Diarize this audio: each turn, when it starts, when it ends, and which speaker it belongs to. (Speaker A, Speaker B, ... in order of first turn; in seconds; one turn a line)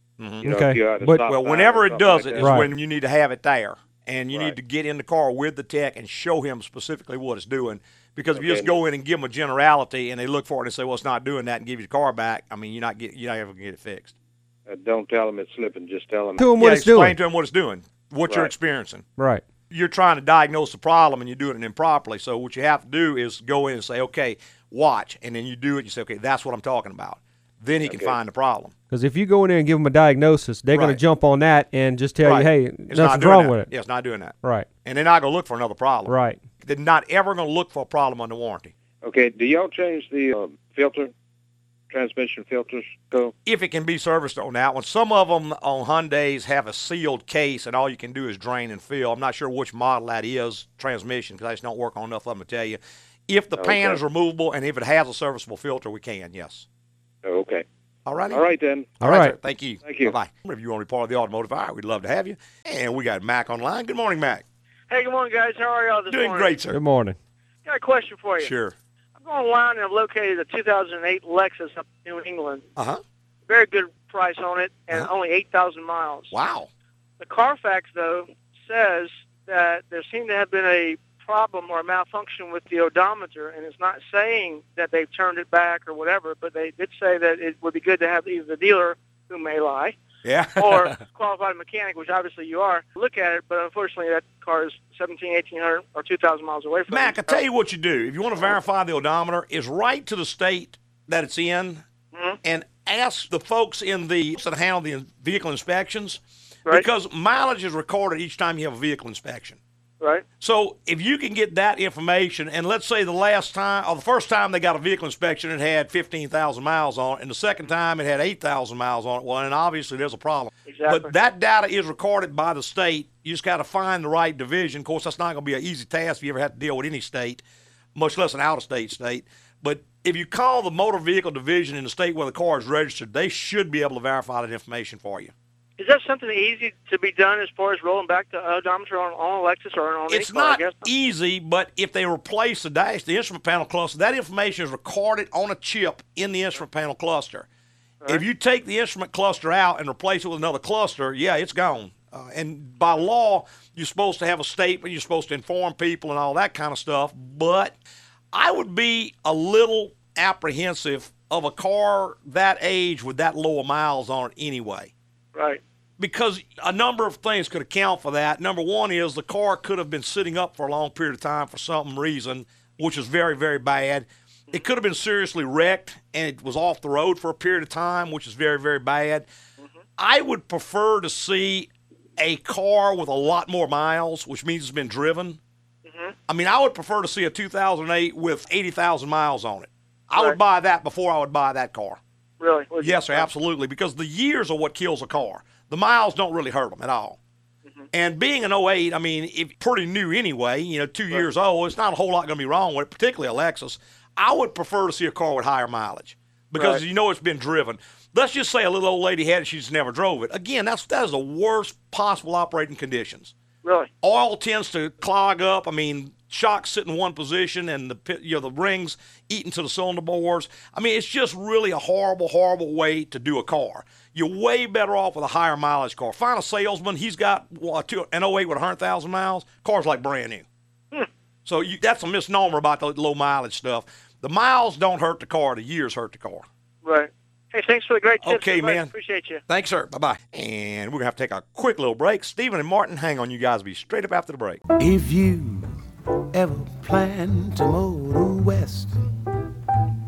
Speaker A: 0.2-0.4
Speaker B: 0.4-2.7
Speaker C: 0.4-1.2
Speaker A: 1.2-14.1
Speaker C: 2.4-2.7
Speaker B: 8.3-8.8
Speaker B: 14.7-16.5
Speaker C: 16.4-17.1
Speaker A: 16.6-19.0
Speaker C: 19.2-19.4
Speaker A: 19.7-28.7
Speaker B: 27.8-28.2
Speaker C: 28.9-33.7
Speaker A: 30.7-31.0
Speaker A: 32.2-38.7
Speaker C: 34.4-34.7
Speaker C: 36.1-36.4
Speaker B: 39.0-41.1
Speaker B: 41.9-43.3
Speaker A: 43.4-56.6
Speaker B: 53.6-54.0
Speaker B: 57.2-57.6
Speaker A: 58.0-58.4
Speaker B: 58.3-58.9
Speaker A: 59.0-64.4
Speaker C: 59.0-59.3
Speaker B: 59.8-60.1
Speaker D: 64.9-66.6
Speaker A: 66.1-66.8
Speaker C: 66.7-67.2
Speaker D: 67.6-68.5
Speaker A: 68.4-68.7
Speaker D: 69.2-72.7
Speaker A: 72.8-73.0
Speaker D: 73.5-76.3
Speaker A: 76.3-76.7
Speaker D: 77.2-90.0
Speaker A: 90.2-91.0
Speaker D: 90.5-97.4
Speaker A: 96.9-101.8
Speaker D: 102.1-102.4
Speaker A: 102.4-109.6
Speaker A: 110.4-127.4
Speaker D: 120.7-121.1
Speaker A: 127.9-135.3
Speaker D: 135.8-140.9
Speaker A: 140.1-147.4
Speaker A: 148.1-157.7
Speaker A: 158.3-164.9
Speaker D: 165.3-165.6
Speaker A: 166.0-179.3
Speaker A: 180.0-185.4
Speaker D: 185.8-186.2
Speaker A: 186.3-192.0
Speaker D: 192.4-193.3
Speaker A: 192.8-197.2
Speaker A: 197.9-213.3
Speaker D: 206.6-206.8
Speaker D: 213.6-213.9
Speaker A: 214.0-230.4
Speaker A: 231.4-236.4
Speaker D: 236.8-239.4
Speaker A: 238.2-238.9
Speaker A: 239.5-244.6
Speaker E: 244.8-245.8
Speaker E: 246.3-249.0